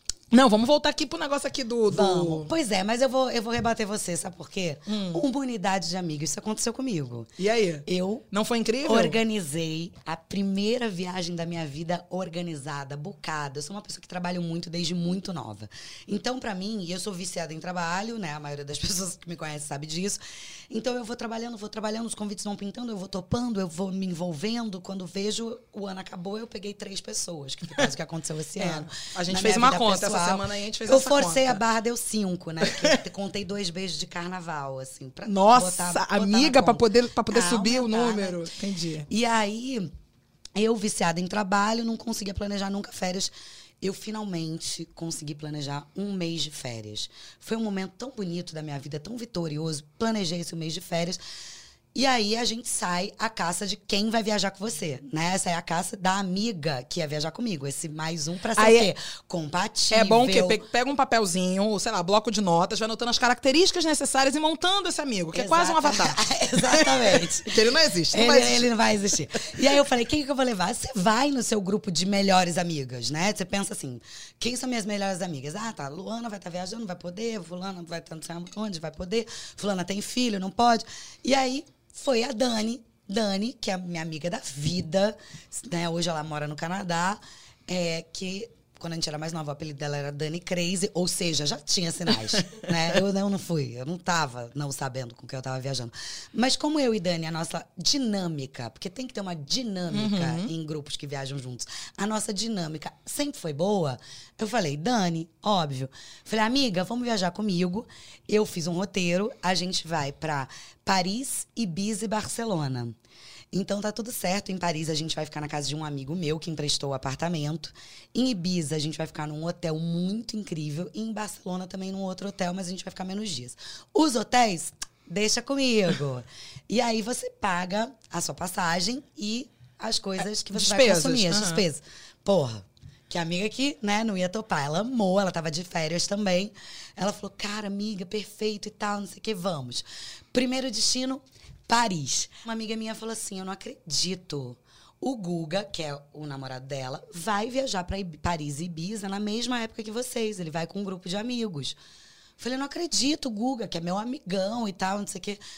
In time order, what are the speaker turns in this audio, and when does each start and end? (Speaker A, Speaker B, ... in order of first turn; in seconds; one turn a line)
Speaker A: 0.3-2.5
Speaker B: 1.9-7.3
Speaker A: 4.9-5.2
Speaker A: 7.4-9.2
Speaker B: 7.9-8.3
Speaker B: 8.8-20.2
Speaker B: 20.7-38.5
Speaker A: 28.6-31.6
Speaker A: 32.6-33.0
Speaker A: 35.2-39.1
Speaker B: 39.1-39.9
Speaker B: 40.6-51.2
Speaker B: 52.0-60.6
Speaker A: 58.6-58.9
Speaker A: 59.9-68.7
Speaker B: 65.3-67.5
Speaker B: 68.1-113.0
Speaker A: 99.9-100.5
Speaker B: 113.5-151.8
Speaker A: 130.5-131.6
Speaker B: 152.4-155.4